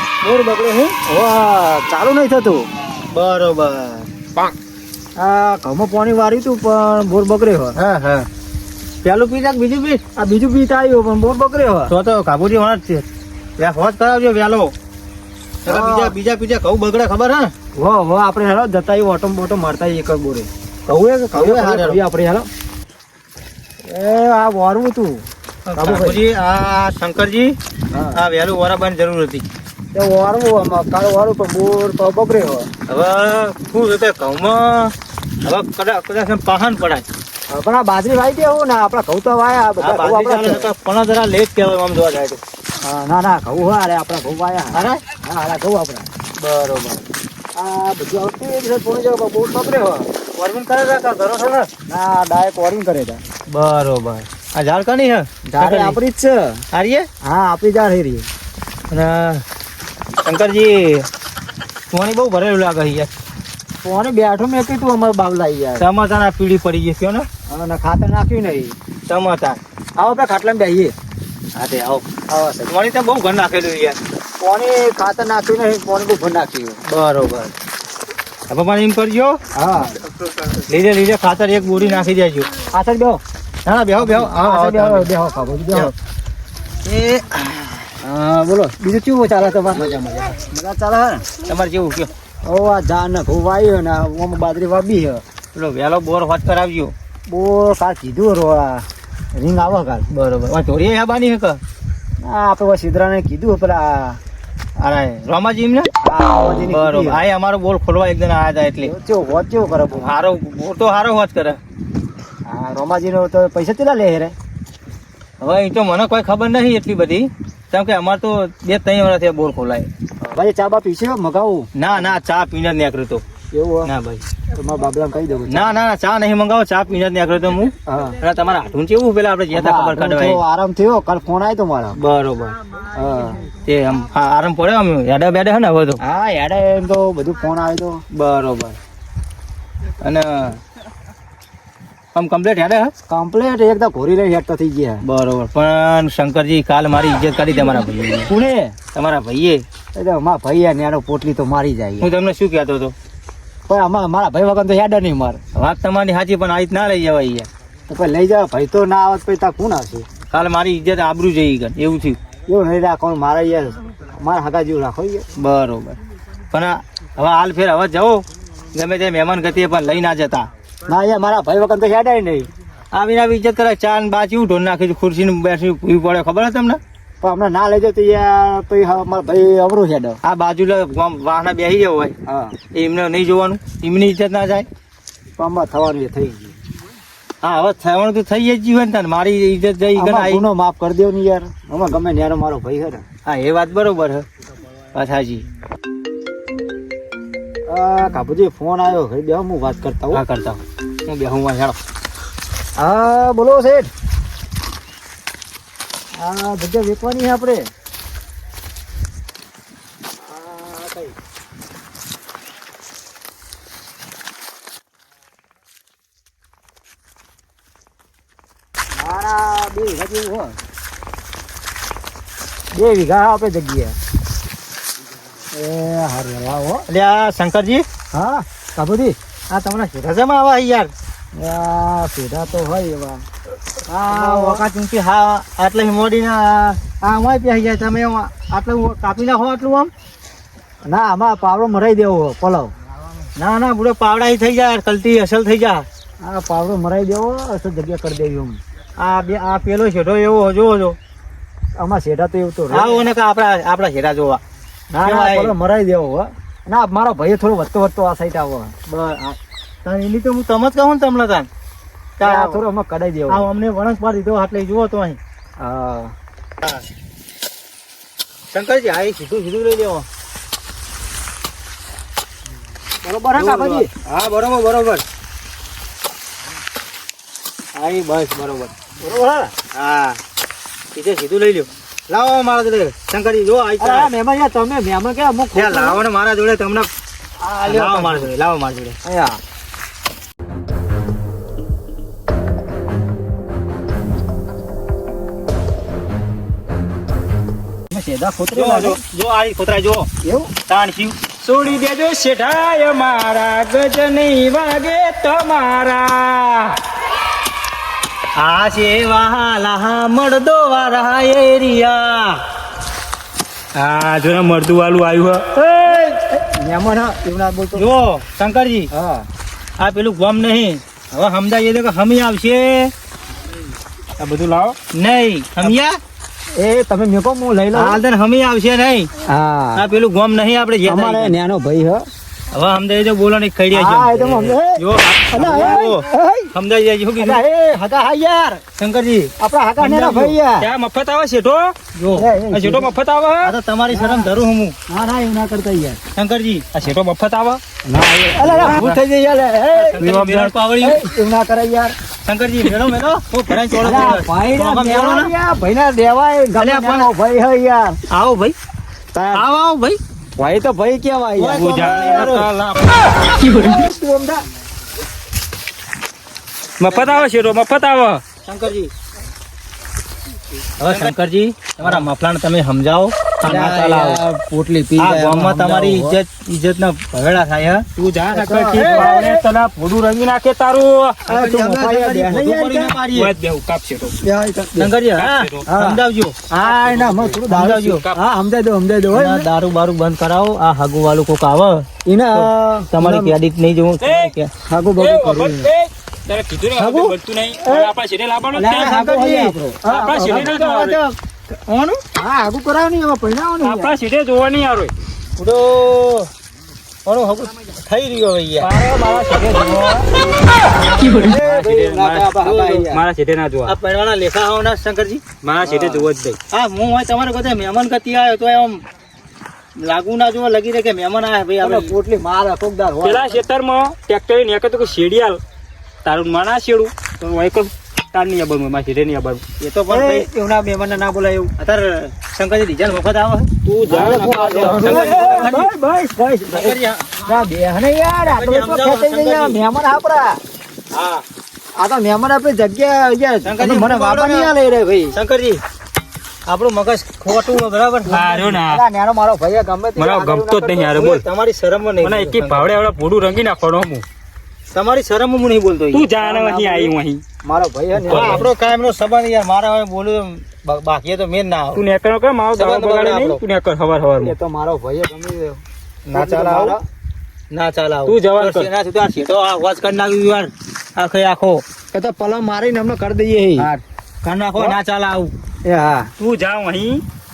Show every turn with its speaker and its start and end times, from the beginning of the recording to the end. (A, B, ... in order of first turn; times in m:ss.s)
0:00.2-0:01.0 A
0:01.1-0:02.7 B
0:03.1-0:04.1 A
0:05.2-0:07.8 B
0:07.8-0:08.3 A
0:09.0-0:10.0 A
0:10.2-0:11.9 B
0:11.9-0:13.1 A
0:13.6-0:14.7 A
0:15.6-0:17.5 A
0:15.7-0:16.1 B
0:17.8-0:20.5 B
0:20.9-0:22.0 A
0:21.3-0:22.5 B
0:23.8-0:26.2 B
0:25.7-0:27.6 A
0:27.9-0:28.2 B
0:28.1-0:29.4 A
0:29.9-0:32.7 B
0:32.9-0:37.1 A
0:37.5-0:40.7 B
0:39.8-0:42.4 A
0:42.8-0:46.1 B
0:44.7-0:45.0 A
0:46.4-0:47.0 A
0:47.6-0:50.1 B
0:50.4-0:51.7 A
0:51.9-0:53.2 B
0:53.5-0:56.0 A
0:55.5-0:56.6 B
0:56.7-0:57.1 A
0:57.2-0:58.3 B
0:58.9-0:59.4 A
1:00.2-1:01.1 A
1:01.9-1:03.1 A
1:03.8-1:05.9 B
1:05.8-1:07.3 A
1:07.5-1:08.8 B
1:09.1-1:09.6 A
1:10.0-1:10.9 B
1:11.6-1:12.1 A
1:12.3-1:12.7 B
1:12.7-1:14.0 A
1:14.4-1:16.8 B
1:16.9-1:17.5 A
1:18.5-1:19.4 A
1:19.6-1:19.9 B
1:20.5-1:22.5 A
1:22.7-1:23.2 B
1:23.6-1:25.1 A
1:24.0-1:25.9 B
1:26.8-1:27.9 A
1:28.0-1:29.9 B
1:29.7-1:30.4 A
1:30.4-1:31.3 B
1:31.4-1:32.1 A
1:32.5-1:35.2 B
1:35.5-1:36.9 A
1:37.3-1:40.1 B
1:40.1-1:41.6 A
1:42.2-1:44.2 B
1:44.8-1:45.9 A
1:46.0-1:47.2 B
1:46.6-1:48.9 A
1:48.8-1:50.1 B
1:49.9-1:51.6 A
1:52.5-1:54.4 B
1:55.4-1:59.9 A
2:00.3-2:01.7 B
2:01.8-2:03.2 A
2:03.5-2:03.9 B
2:03.8-2:04.3 A
2:04.5-2:05.8 B
2:05.5-2:10.4 A
2:07.9-2:08.2 B
2:09.5-2:12.0 B
2:12.0-2:12.6 A
2:12.9-2:13.4 B
2:13.6-2:16.0 A
2:16.0-2:18.0 B
2:18.1-2:18.8 A
2:20.0-2:20.6 A
2:22.2-2:22.9 A
2:23.1-2:25.0 B
2:25.0-2:29.6 A
2:30.0-2:32.1 B
2:32.0-2:33.0 A
2:33.7-2:35.4 B
2:35.5-2:37.5 A
2:37.9-2:40.1 B
2:40.3-2:42.2 A
2:42.5-2:45.3 B
2:45.4-2:46.0 A
2:46.5-2:50.5 A
2:50.8-2:52.5 B
2:52.9-2:56.8 A
2:57.2-3:00.2 B
3:00.2-3:02.2 A
3:02.3-3:02.6 B
3:02.7-3:04.7 A
3:05.4-3:06.6 B
3:07.4-3:10.4 A
3:10.0-3:13.0 B
3:13.2-3:14.3 A
3:14.9-3:15.4 A
3:17.7-3:20.2 B
3:20.1-3:21.8 A
3:22.8-3:23.9 B
3:26.2-3:27.7 B
3:30.2-3:31.1 B
3:38.9-3:40.6 B
3:42.7-3:44.0 B
3:45.5-3:46.9 B
3:46.9-3:47.9 A
3:48.1-3:49.2 B
3:49.5-3:50.9 A
3:51.4-3:53.2 B
3:53.9-3:54.6 B
3:54.0-3:59.9 A
4:00.9-4:02.7 B
4:03.4-4:05.9 A
4:06.2-4:08.6 B
4:09.0-4:11.0 A
4:11.8-4:13.0 B
4:12.7-4:14.4 A
4:14.9-4:18.8 B
4:15.0-4:15.6 A
4:18.9-4:21.5 A
4:22.2-4:22.6 A
4:22.2-4:23.5 B
4:23.3-4:25.2 A
4:25.6-4:26.1 B
4:28.5-4:30.1 A
4:33.0-4:33.9 B
4:33.4-4:35.0 A
4:37.8-4:38.7 A
4:39.0-4:39.5 B
4:39.7-4:40.2 A
4:41.0-4:44.1 A
4:43.8-4:46.0 B
4:45.5-4:46.9 A
4:47.4-4:48.3 B
4:47.6-4:49.0 A
4:49.0-4:49.4 B
4:57.9-4:59.0 B
4:58.5-5:00.1 A
5:00.2-5:00.5 B
5:00.7-5:01.3 A
5:01.4-5:06.8 C
5:08.4-5:12.4 A
5:13.8-5:15.5 C
5:15.6-5:17.9 B
5:17.8-5:18.9 A
5:18.9-5:19.3 B
5:19.8-5:22.9 A
5:24.2-5:24.8 C
5:24.9-5:26.0 A
5:26.6-5:28.0 B
5:27.7-5:29.1 A
5:29.3-5:29.8 B
5:29.8-5:31.3 A
5:30.8-5:32.1 B
5:32.5-5:37.4 A
5:33.7-5:36.5 B
5:37.2-5:38.6 B
5:38.8-5:39.3 A
5:39.4-5:40.7 B
5:39.8-5:41.8 C
5:42.0-5:42.3 A
5:42.1-5:42.9 B
5:42.5-5:43.5 C
5:43.4-5:44.8 A
5:43.9-5:44.3 B
5:44.9-5:46.0 B
5:46.2-5:46.7 A
5:46.8-5:47.6 C
5:47.9-5:52.0 B
5:48.4-5:49.0 A
5:48.6-5:49.0 C
5:49.8-5:51.0 A
5:52.2-5:55.3 A
5:53.8-5:58.0 B
5:56.6-5:57.1 A
5:58.1-5:58.6 A
5:59.1-5:59.4 B
5:59.3-6:00.0 A
6:00.4-6:02.4 B
6:01.4-6:03.2 A
6:01.6-6:02.5 C
6:03.4-6:03.7 C
6:03.4-6:04.4 B
6:06.8-6:08.2 C
6:06.9-6:07.3 A
6:08.4-6:08.9 A
6:10.8-6:14.2 A
6:13.4-6:16.2 B
6:15.0-6:17.9 A
6:18.0-6:21.2 C
6:18.3-6:19.4 B
6:18.7-6:19.3 A
6:21.3-6:23.3 A
6:21.3-6:23.0 B
6:23.1-6:24.2 C
6:24.2-6:24.9 B
6:24.8-6:26.4 A
6:25.2-6:25.6 C
6:25.7-6:29.5 B
6:26.7-6:27.3 C
6:27.2-6:28.1 A
6:29.1-6:34.5 A
6:32.1-6:33.4 B
6:34.0-6:34.4 C
6:34.7-6:35.7 B
6:35.0-6:38.9 C
6:36.8-6:37.2 A
6:37.6-6:37.9 B
6:38.5-6:40.5 B
6:38.6-6:39.6 A
6:39.9-6:41.0 C
6:40.2-6:42.0 A
6:42.2-6:44.0 B
6:43.6-6:44.9 C
6:45.4-6:46.3 A
6:47.0-6:48.7 A
6:48.6-6:50.1 B
6:50.9-6:53.7 C
6:51.0-6:53.0 B
6:53.7-6:55.3 A
6:55.4-6:56.4 C
6:55.6-6:56.1 B
6:56.5-6:58.8 A
6:59.8-7:01.9 A
7:01.6-7:03.4 B
7:03.0-7:05.4 C
7:06.0-7:09.4 C
7:09.6-7:10.3 A
7:09.9-7:11.5 B
7:11.6-7:13.5 A
7:13.6-7:15.2 C
7:13.9-7:20.4 B
7:14.3-7:15.7 A
7:16.5-7:17.2 A
7:18.2-7:19.6 A
7:20.9-7:21.2 A
7:21.8-7:25.2 B
7:23.4-7:24.5 A
7:25.1-7:25.6 A
7:26.5-7:28.2 A
7:28.1-7:30.9 B
7:28.1-7:28.8 C
7:30.0-7:31.2 C
7:30.9-7:32.7 A
7:32.0-7:34.0 C
7:34.7-7:36.8 A
7:35.9-7:37.2 C
7:37.4-7:38.5 B
7:38.0-7:38.4 C
7:38.1-7:41.8 A
7:41.8-7:44.4 C
7:42.6-7:43.4 A
7:44.2-7:46.8 B
7:46.1-7:46.8 A
7:47.5-7:51.6 A
7:48.1-7:48.7 C
7:51.9-7:53.7 B
7:53.6-7:55.3 A
7:55.6-7:56.1 B
7:56.2-7:57.0 C